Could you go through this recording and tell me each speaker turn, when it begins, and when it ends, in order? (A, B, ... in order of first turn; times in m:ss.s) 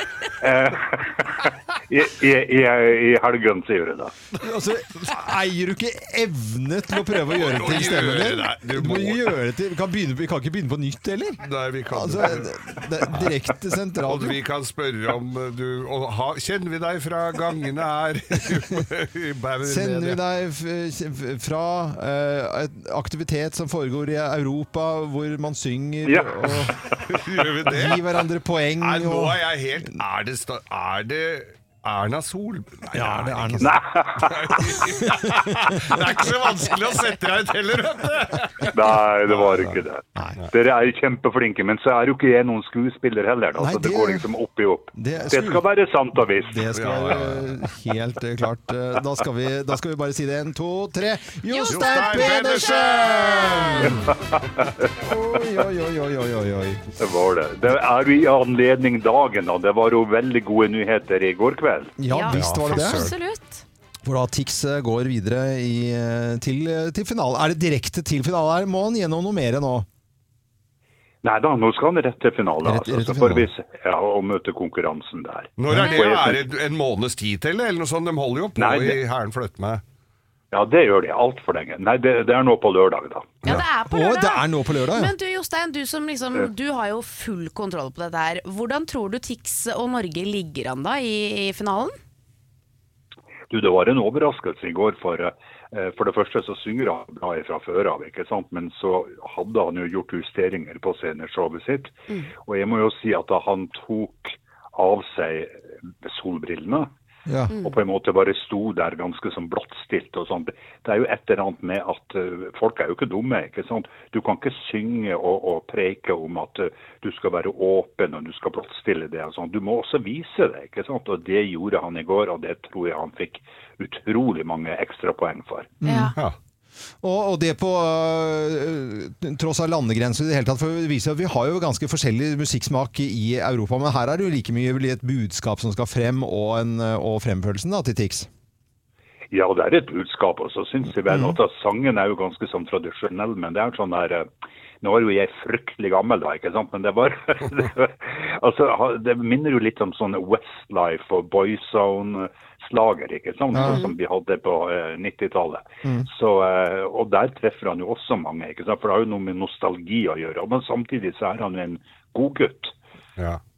0:00.4-0:04.1 A
0:04.4-0:14.4 B
0:07.3-0:09.3 C
0:11.4-0:13.3 C
0:14.0-0:20.2 C
0:19.6-0:26.8 B
0:26.0-0:26.5 A
0:27.1-0:28.1 C
0:27.7-0:29.4 B
0:28.8-0:38.7 C
0:32.9-0:33.8 B
0:33.6-0:34.5 A
0:35.0-0:35.5 B
0:38.7-0:46.6 A
0:39.3-0:39.8 C
0:43.6-0:44.2 B
0:44.9-0:45.6 B
0:46.4-0:54.0 B
0:46.7-0:47.6 C
0:51.5-0:51.9 D
0:51.7-0:54.1 C
0:55.0-0:56.8 B
0:57.0-1:01.9 A
1:02.0-1:03.1 B
1:02.1-1:03.6 D
1:02.3-1:03.1 C
1:04.0-1:09.9 B
1:11.2-1:16.4 A
1:12.6-1:13.5 B
1:15.6-1:19.8 C
1:15.7-1:16.0 D
1:18.6-1:19.0 A
1:20.5-1:23.4 A
1:23.4-1:32.0 D
1:23.5-1:25.1 B
1:33.5-1:46.9 A
1:47.3-1:47.5 B
1:47.5-2:05.7 A
2:05.8-2:06.1 B
2:05.8-2:06.1 D
2:07.0-2:18.3 B
2:19.3-2:24.3 A
2:24.8-2:42.7 A
2:33.5-2:33.8 B